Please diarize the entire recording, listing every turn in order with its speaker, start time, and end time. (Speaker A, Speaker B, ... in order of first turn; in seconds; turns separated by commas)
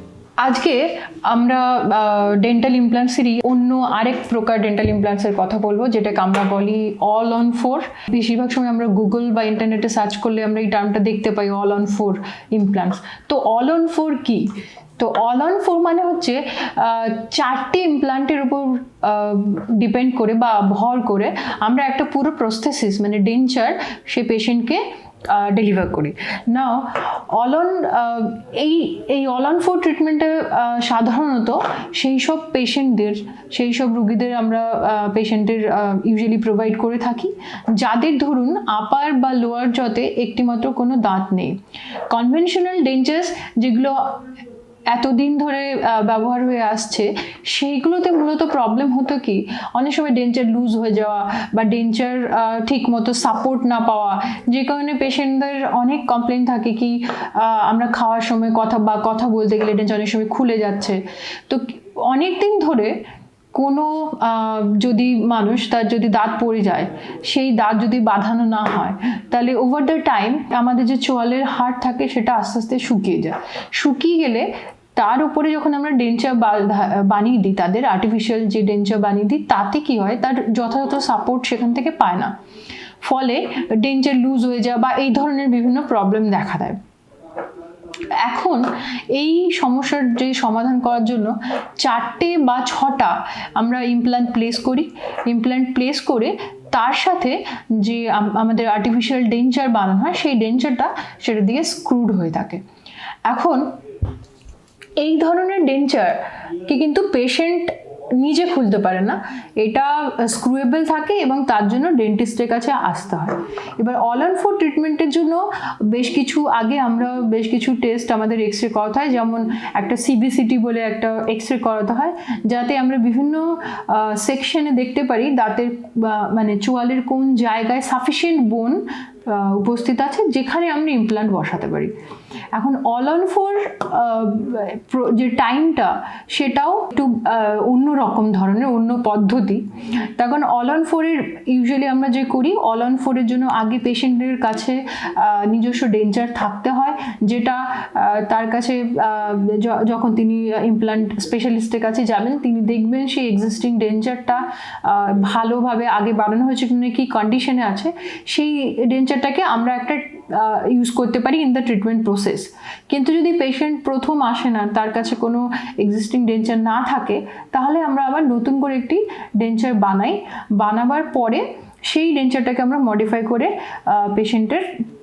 Speaker A: 0.4-44.3, Speaker A: 44.9-63.0, Speaker A: 63.5-82.3, Speaker A: 83.0-86.8, Speaker A: 88.1-102.6, Speaker A: 103.3-103.8, Speaker A: 105.0-131.9, Speaker A: 132.5-139.6, Speaker A: 140.2-174.8